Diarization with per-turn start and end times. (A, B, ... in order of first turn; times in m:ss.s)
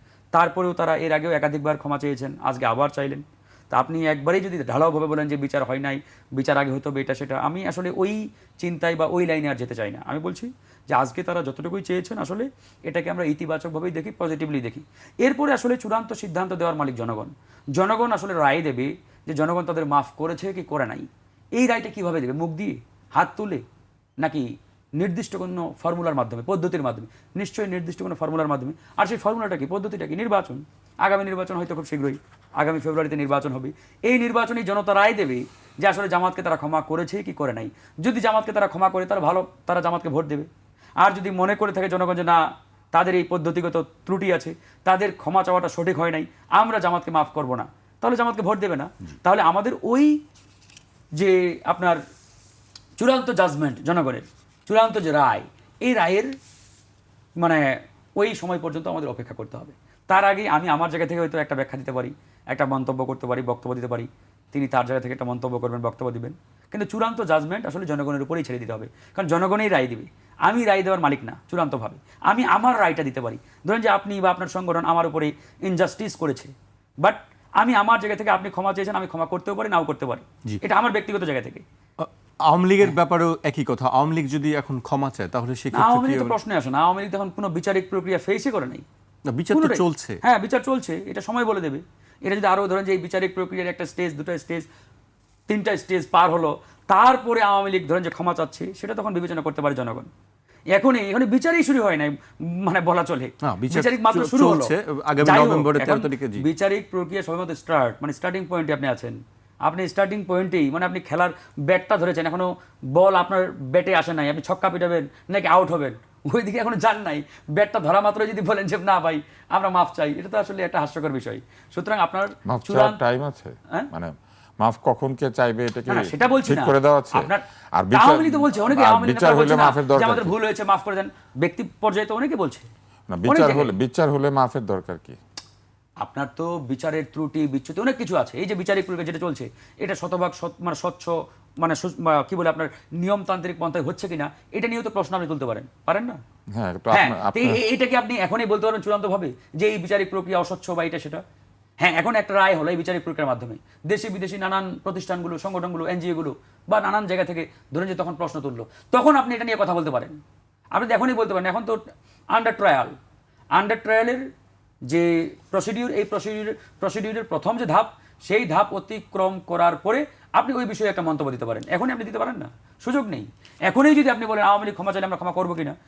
0:00.3-0:23.6 A
0:24.2-0:40.5 A
0:41.0-0:50.2 A
0:51.2-0:52.0 A
0:53.0-0:56.3 A
0:57.4-1:16.5 A
1:17.0-1:21.6 A
1:22.0-1:26.3 B
1:25.7-1:28.8 A
1:29.3-1:30.2 B
1:29.5-1:34.7 A
1:35.5-1:40.1 A
1:40.7-2:03.0 A
1:43.4-1:46.4 B
2:02.5-2:10.4 C
2:05.9-2:12.7 A
2:13.1-2:15.2 C
2:13.3-2:13.7 A
2:16.0-2:26.2 A
2:26.5-2:27.6 C
2:26.9-2:31.2 A
2:31.8-2:40.2 A
2:40.7-2:41.8 A
2:42.3-2:43.0 A
2:43.6-2:44.2 A
2:44.9-2:55.8 A